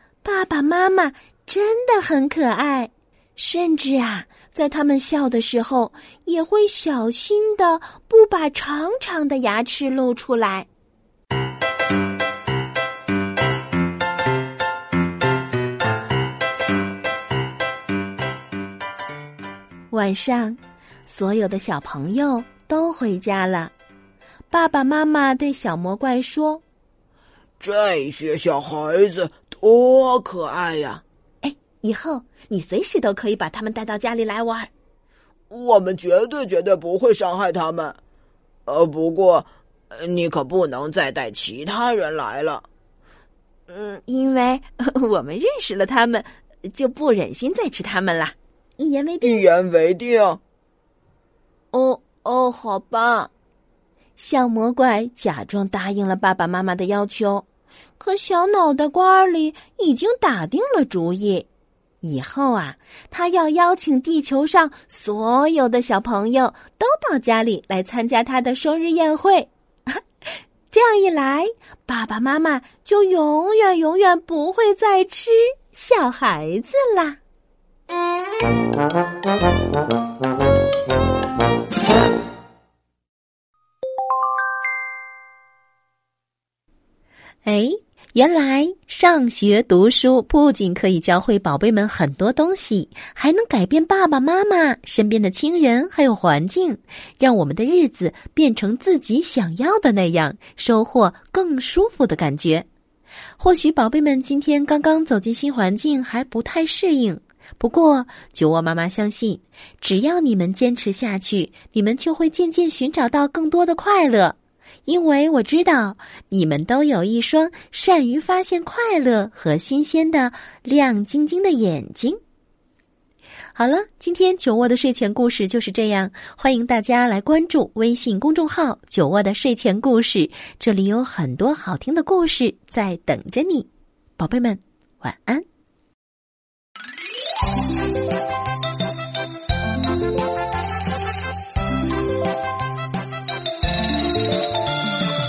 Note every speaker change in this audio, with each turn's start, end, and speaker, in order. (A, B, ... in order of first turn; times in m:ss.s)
0:00.2-0:10.7 A
0:19.9-0:23.7 A
0:24.5-0:26.6 A
0:27.6-0:31.0 B
0:31.4-0:34.7 A
0:35.5-0:38.0 B
0:38.7-0:42.6 B
0:43.7-0:49.4 A
0:49.2-0:50.4 B
0:51.7-0:53.3 A
0:54.2-0:57.4 A
0:58.0-1:01.5 A
1:02.0-1:09.5 A
1:10.7-1:17.2 A
1:27.4-1:42.7 A
1:43.4-2:02.2 A
2:03.6-2:15.4 A